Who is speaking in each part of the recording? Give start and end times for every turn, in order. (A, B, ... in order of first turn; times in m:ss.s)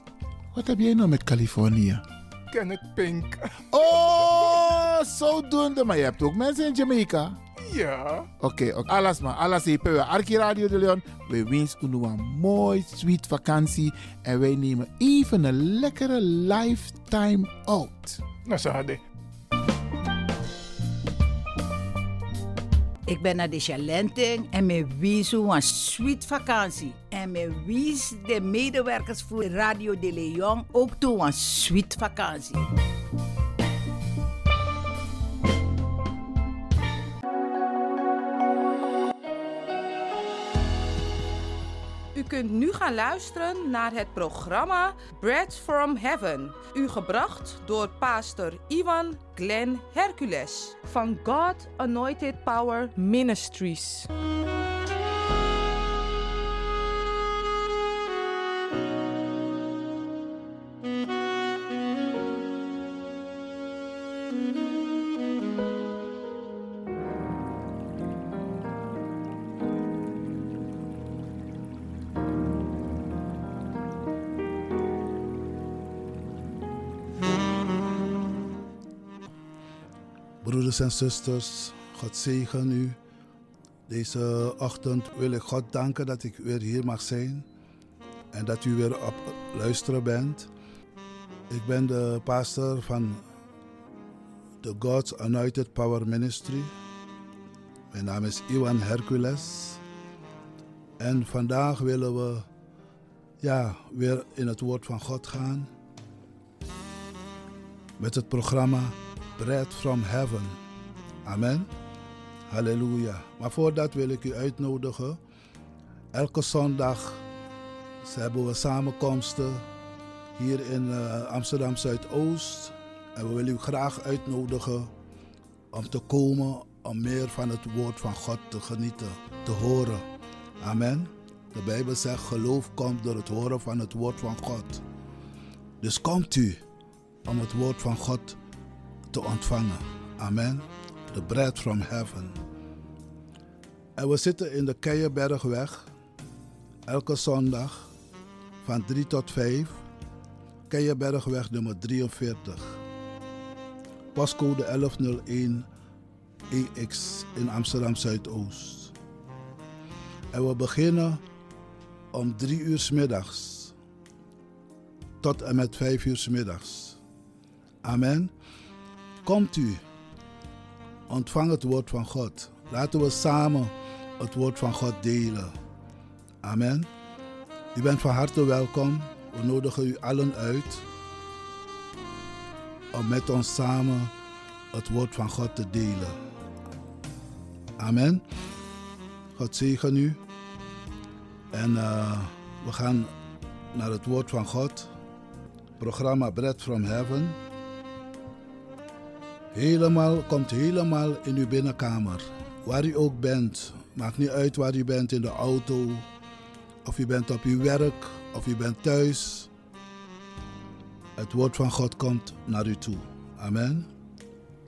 0:00.5-0:02.0 A
0:02.5-0:04.3 B
0:03.7-0:07.4 A
0:07.7-0:08.3 B
0:08.4-0:18.2 A
0:18.5-0:19.0 B
0:23.1-0:32.7 C
0:42.1-0:54.1 D
1:20.4-1:23.0 E
1:23.9-1:27.5 E
1:28.3-1:30.5 E
1:31.5-1:33.2 E
1:34.6-1:36.7 E
1:37.9-1:39.8 E
1:41.0-1:42.5 E
1:43.4-1:45.7 E
1:48.0-1:50.6 E
1:51.2-1:51.7 E
1:52.5-1:55.2 E
1:56.1-1:57.2 E
1:58.0-1:59.6 E
2:00.4-2:04.9 E
2:05.7-2:10.0 E
2:10.6-2:14.8 E
2:15.8-2:16.6 E
2:17.2-2:18.4 E
2:19.1-2:22.4 E
2:24.0-2:25.9 E
2:26.9-2:27.9 E
2:28.6-2:29.8 E
2:30.7-2:32.8 E
2:34.1-2:35.7 E
2:36.5-2:38.9 E
2:40.3-2:41.2 E
2:42.1-2:43.7 E
2:45.2-2:47.0 E
2:47.8-2:48.3 E
2:49.2-2:49.8 E
2:51.1-2:55.5 E
2:56.4-2:56.9 E
2:57.7-3:00.8 E
3:02.9-3:04.1 E
3:04.7-3:06.2 E
3:07.8-3:08.2 E
3:09.3-3:10.2 E
3:11.5-3:13.1 E
3:13.7-3:14.9 E
3:15.8-3:17.4 E
3:19.5-3:26.1 E
3:26.8-3:29.5 E
3:31.2-3:33.9 E